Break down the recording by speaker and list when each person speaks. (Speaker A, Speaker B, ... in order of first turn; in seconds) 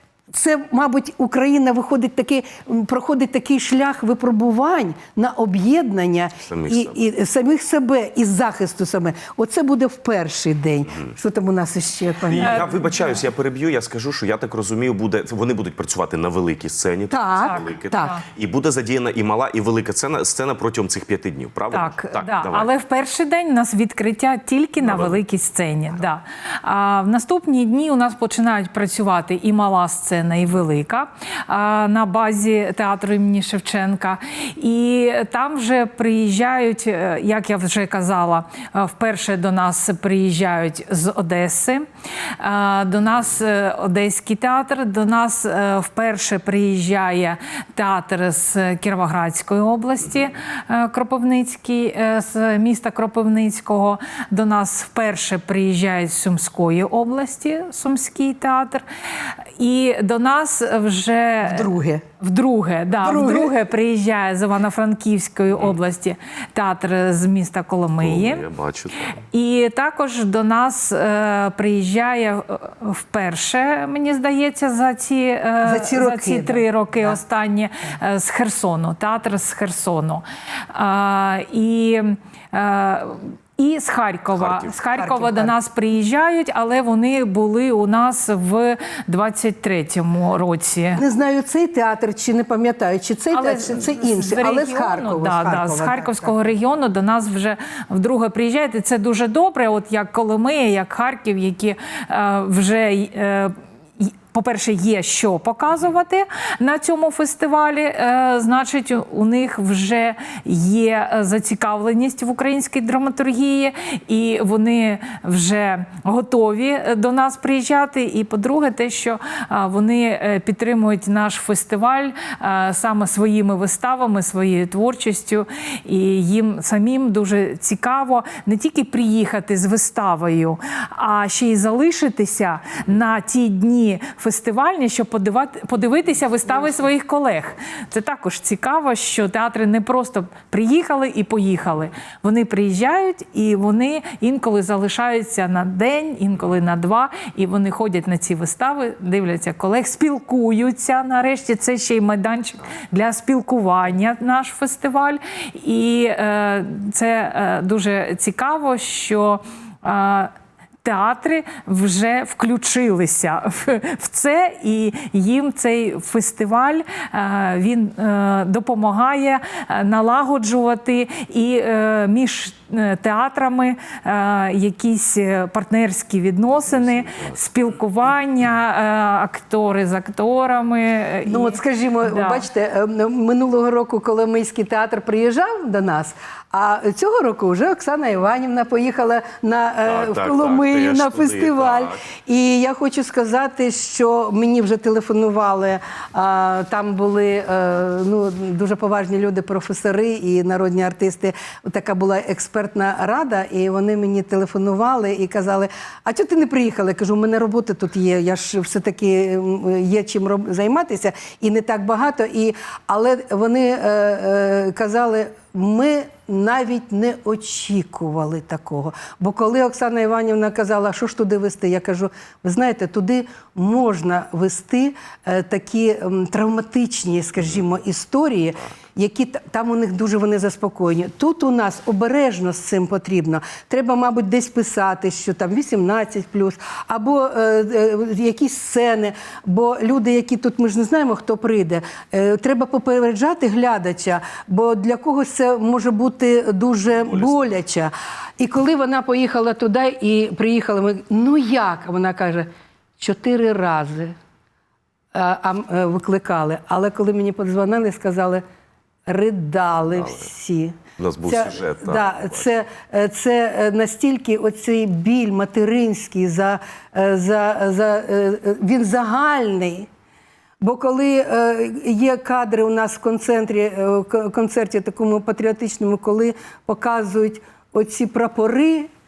Speaker A: 0.3-12.7, 17.1-18.1, 61.4-62.0, 63.0-63.5, 75.6-77.2, 85.0-85.5, 91.0-96.5, 181.2-252.5, 253.0-254.2, 255.1-258.4, 259.1-269.9, 270.6-278.9
Speaker B: 6.5-7.0, 12.3-22.7, 24.8-25.2, 68.0-69.2, 84.3-84.7, 177.0-177.3, 189.8-192.0, 247.1-247.5, 261.0-262.5
Speaker C: 12.4-13.1, 17.4-18.2, 21.7-41.8, 42.4-58.8, 59.6-61.7, 62.2-68.4, 69.3-91.0, 93.3-182.4